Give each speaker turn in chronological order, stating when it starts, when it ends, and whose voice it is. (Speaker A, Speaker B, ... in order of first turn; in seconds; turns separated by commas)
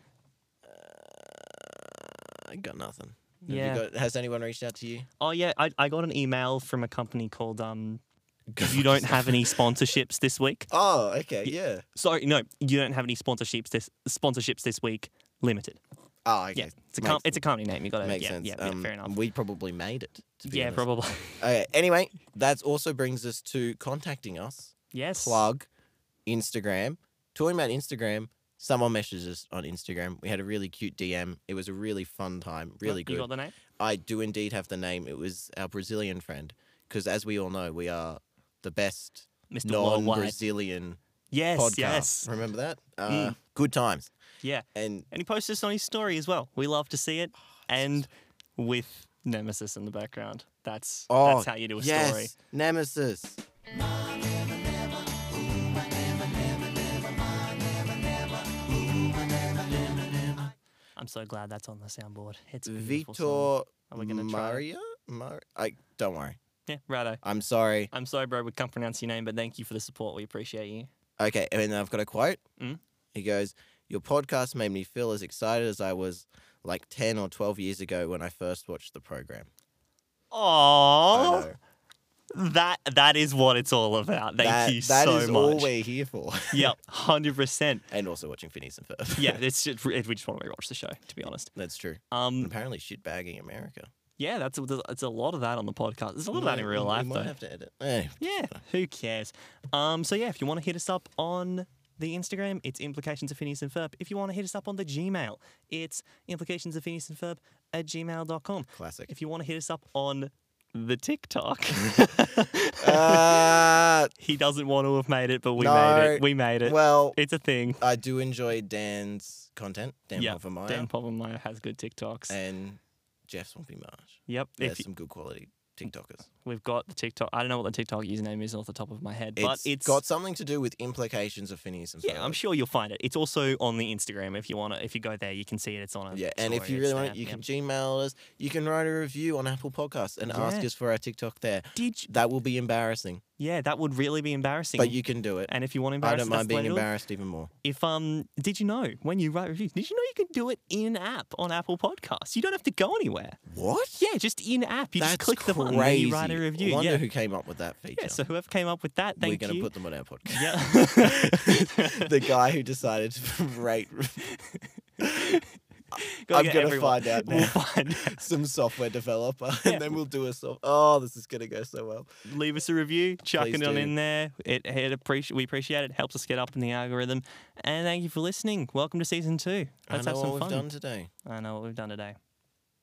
Speaker A: 0.6-5.1, Speaker B: 3.5-3.8, Speaker B: 5.2-8.0, Speaker A: 8.5-9.5, Speaker B: 8.6-10.7, Speaker A: 10.7-11.8, Speaker B: 11.4-15.8, Speaker A: 16.2-17.4, Speaker B: 16.5-19.1, Speaker A: 18.0-20.8, Speaker B: 20.4-21.4, Speaker A: 21.4-25.7, Speaker B: 24.9-25.4, Speaker A: 26.2-41.0, Speaker B: 32.8-33.5, Speaker B: 39.5-40.4, Speaker B: 41.3-42.3, Speaker A: 41.5-44.1, Speaker B: 43.1-43.4, Speaker B: 44.4-52.3, Speaker A: 44.7-45.1, Speaker A: 47.6-48.0, Speaker A: 51.1-53.4, Speaker B: 58.5-60.4, Speaker B: 61.0-64.6, Speaker A: 62.6-66.4, Speaker B: 66.7-67.2, Speaker A: 67.2-67.9, Speaker B: 67.9-70.9, Speaker A: 71.2-72.4, Speaker A: 73.1-79.5, Speaker B: 80.3-81.5, Speaker A: 81.1-81.6, Speaker B: 82.3-85.7, Speaker A: 84.4-86.7, Speaker B: 86.5-87.9, Speaker A: 87.9-89.4, Speaker B: 89.2-91.5, Speaker A: 91.5-93.9, Speaker B: 92.1-92.5, Speaker B: 94.2-97.3, Speaker A: 96.3-98.2, Speaker B: 98.2-113.6, Speaker A: 108.7-109.1, Speaker A: 112.8-114.1, Speaker B: 114.2-117.8, Speaker A: 115.6-117.2, Speaker A: 117.8-120.9, Speaker B: 120.2-122.4, Speaker A: 122.3-126.3, Speaker B: 124.3-124.8, Speaker B: 126.4-130.0, Speaker A: 129.4-132.4, Speaker B: 132.0-137.4, Speaker A: 136.1-143.2, Speaker B: 140.2-140.7, Speaker B: 141.7-142.1, Speaker B: 143.4-146.9, Speaker A: 144.8-145.5, Speaker A: 146.0-147.5, Speaker B: 147.6-153.4, Speaker A: 153.5-154.0, Speaker B: 154.0-157.0, Speaker A: 155.0-158.2, Speaker B: 157.9-159.7, Speaker A: 159.2-164.2, Speaker B: 160.3-162.2, Speaker A: 165.0-165.4, Speaker A: 165.9-172.1, Speaker B: 166.0-168.2, Speaker B: 169.6-170.0, Speaker B: 172.2-180.7, Speaker A: 173.3-173.9, Speaker A: 179.9-181.1, Speaker B: 181.2-182.2